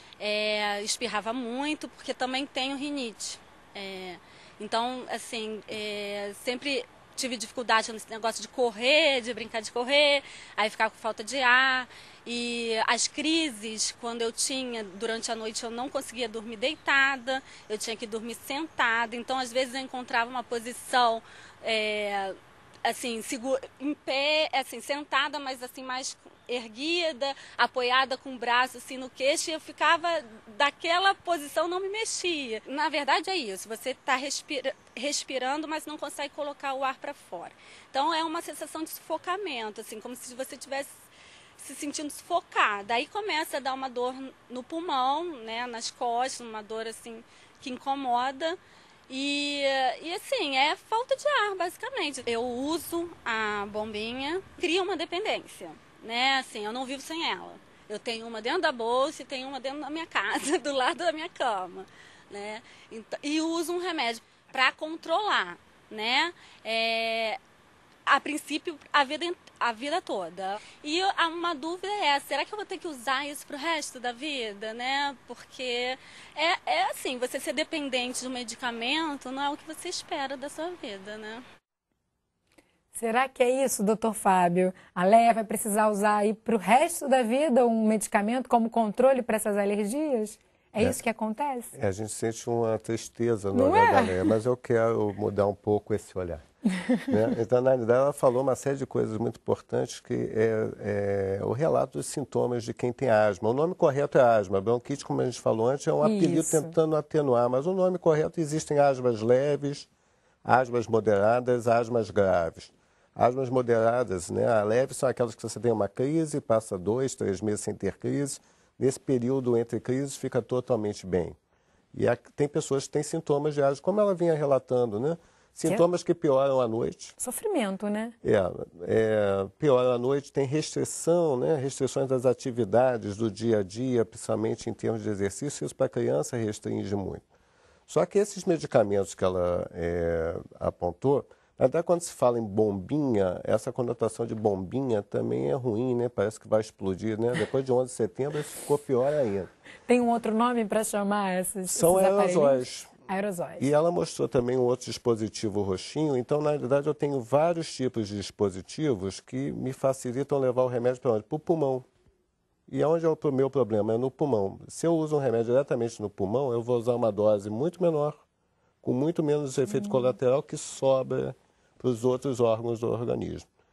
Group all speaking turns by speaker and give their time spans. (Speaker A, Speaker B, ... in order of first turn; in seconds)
Speaker A: 0.2-41.0, 41.6-48.6, 49.1-67.4, 68.1-81.4
Speaker B: 82.9-91.7, 93.5-94.3, 96.8-97.0, 106.0-106.8, 127.2-128.1, 149.9-153.7
Speaker C: 91.7-96.4, 97.1-109.9, 110.4-121.4, 121.9-127.2, 128.2-137.2, 137.9-149.5, 151.7-152.9, 153.6-161.9, 162.7-168.2, 168.8-173.5